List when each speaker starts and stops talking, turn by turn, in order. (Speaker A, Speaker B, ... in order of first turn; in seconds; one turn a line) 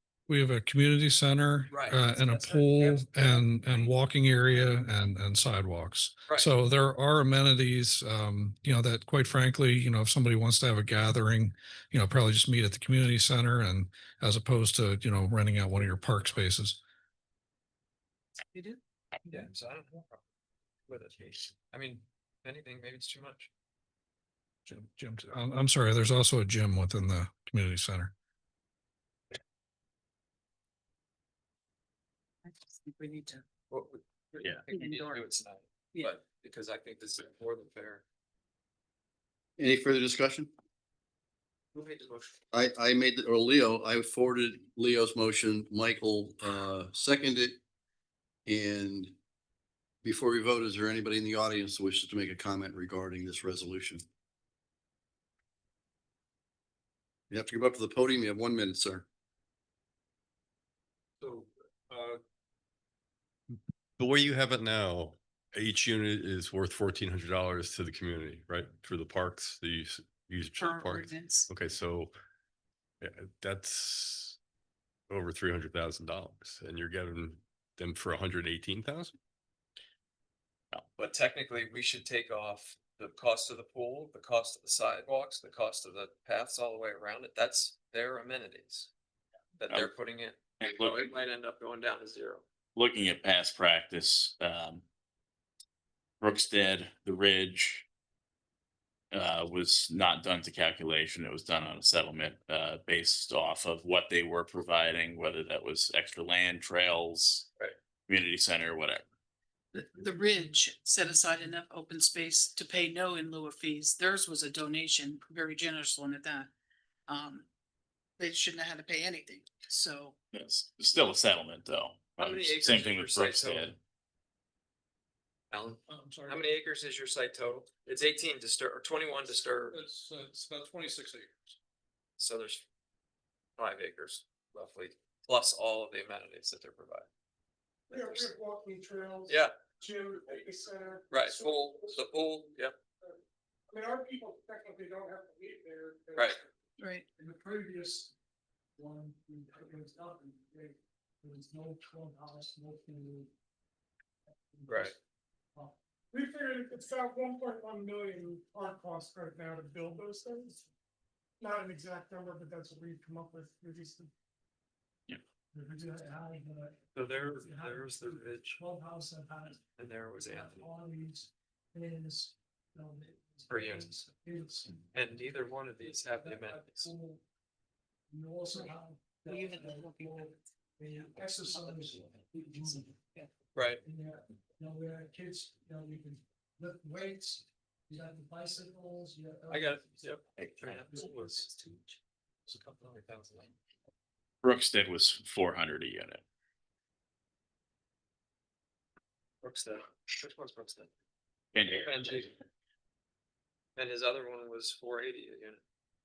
Speaker A: 0.3-16.8
Speaker B: 1.7-2.0
Speaker C: 2.1-3.4
Speaker B: 15.8-16.4
Speaker D: 18.5-18.8
Speaker B: 19.3-20.2
Speaker B: 20.9-23.5
Speaker A: 24.7-28.1
Speaker D: 32.5-33.4
Speaker B: 33.7-38.0
Speaker D: 34.7-35.1
Speaker E: 39.6-40.5
Speaker B: 41.7-42.4
Speaker E: 42.5-47.6
Speaker E: 48.5-49.1
Speaker E: 50.0-54.0
Speaker E: 57.3-59.1
Speaker F: 64.0-72.1
Speaker D: 70.6-71.5
Speaker F: 73.0-74.4
Speaker F: 75.1-79.1
Speaker B: 81.0-88.9
Speaker B: 89.6-92.4
Speaker G: 90.6-91.1
Speaker G: 92.8-94.8
Speaker G: 96.2-97.8
Speaker G: 99.1-107.5
Speaker G: 108.1-109.0
Speaker D: 109.7-116.5
Speaker D: 117.1-117.5
Speaker D: 118.2-120.2
Speaker G: 120.3-123.8
Speaker B: 122.2-123.7
Speaker B: 125.5-129.8
Speaker A: 125.9-126.4
Speaker A: 129.7-131.3
Speaker B: 132.2-132.7
Speaker B: 133.6-137.1
Speaker C: 137.9-142.1
Speaker B: 137.9-138.3
Speaker B: 139.3-139.5
Speaker B: 141.1-142.8
Speaker C: 143.7-146.4
Speaker D: 146.8-147.1
Speaker C: 147.2-148.1
Speaker C: 148.8-153.3
Speaker C: 154.3-154.9
Speaker B: 154.7-154.9
Speaker C: 155.6-160.7
Speaker C: 161.4-164.1
Speaker C: 165.5-166.8
Speaker B: 166.9-168.6
Speaker C: 167.3-169.6
Speaker B: 169.8-170.7
Speaker C: 170.3-174.8
Speaker B: 173.5-174.0
Speaker B: 174.9-176.9
Speaker C: 176.2-177.2
Speaker C: 178.1-183.0
Speaker D: 179.3-180.3
Speaker D: 182.6-183.3
Speaker B: 183.6-183.8
Speaker C: 183.8-190.0
Speaker B: 189.5-191.5
Speaker B: 192.5-193.5
Speaker G: 194.4-196.2
Speaker B: 199.4-200.9
Speaker G: 201.5-202.2
Speaker B: 201.7-202.3
Speaker B: 203.8-205.6